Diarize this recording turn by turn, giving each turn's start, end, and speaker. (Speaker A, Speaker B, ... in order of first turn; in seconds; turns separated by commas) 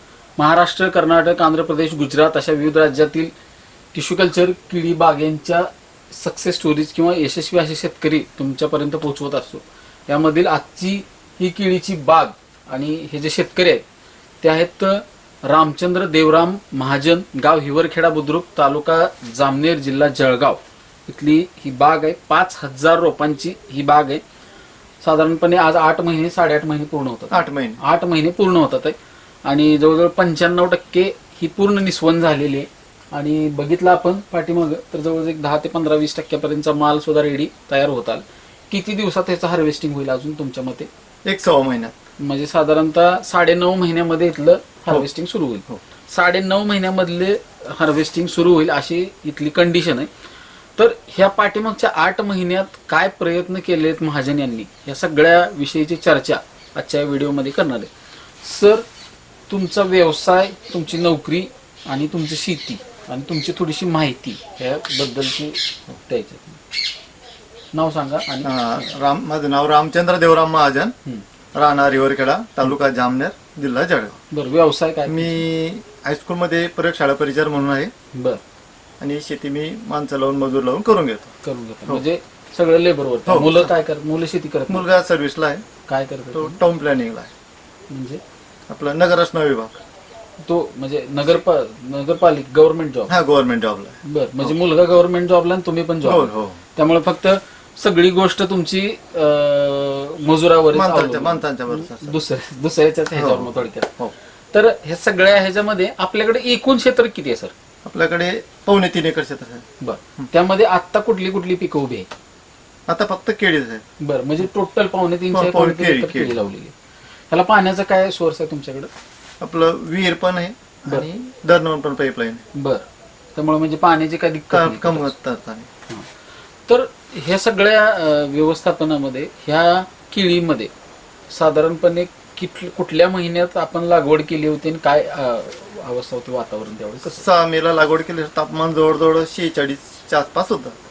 Speaker A: 0.4-3.3, Speaker A: 3.9-13.8, Speaker A: 14.4-24.2, Speaker A: 25.0-28.9, Speaker B: 27.3-27.8, Speaker A: 29.5-40.9, Speaker B: 41.2-42.0, Speaker A: 42.2-50.1, Speaker A: 50.8-57.9, Speaker A: 58.4-58.8, Speaker A: 59.5-66.6, Speaker A: 67.7-68.9, Speaker B: 68.4-70.9, Speaker B: 71.5-74.2, Speaker A: 74.3-75.5, Speaker B: 75.1-77.9, Speaker A: 78.2-78.4, Speaker B: 79.0-81.3, Speaker A: 81.4-84.8, Speaker B: 83.3-83.7, Speaker B: 84.7-85.7, Speaker A: 85.9-86.6, Speaker B: 86.3-87.3, Speaker A: 87.9-88.2, Speaker B: 88.7-89.8, Speaker A: 90.5-93.2, Speaker B: 93.1-94.6, Speaker A: 94.0-104.0, Speaker B: 96.0-96.6, Speaker B: 100.7-102.2, Speaker B: 103.2-104.1, Speaker A: 104.5-107.5, Speaker B: 107.9-109.7, Speaker A: 109.8-112.1, Speaker B: 112.9-113.8, Speaker A: 114.0-116.7, Speaker B: 115.3-116.4, Speaker A: 117.3-118.9, Speaker B: 119.4-122.4, Speaker A: 122.5-125.1, Speaker B: 124.5-125.7, Speaker A: 126.7-130.7, Speaker A: 131.3-137.2, Speaker B: 137.1-140.8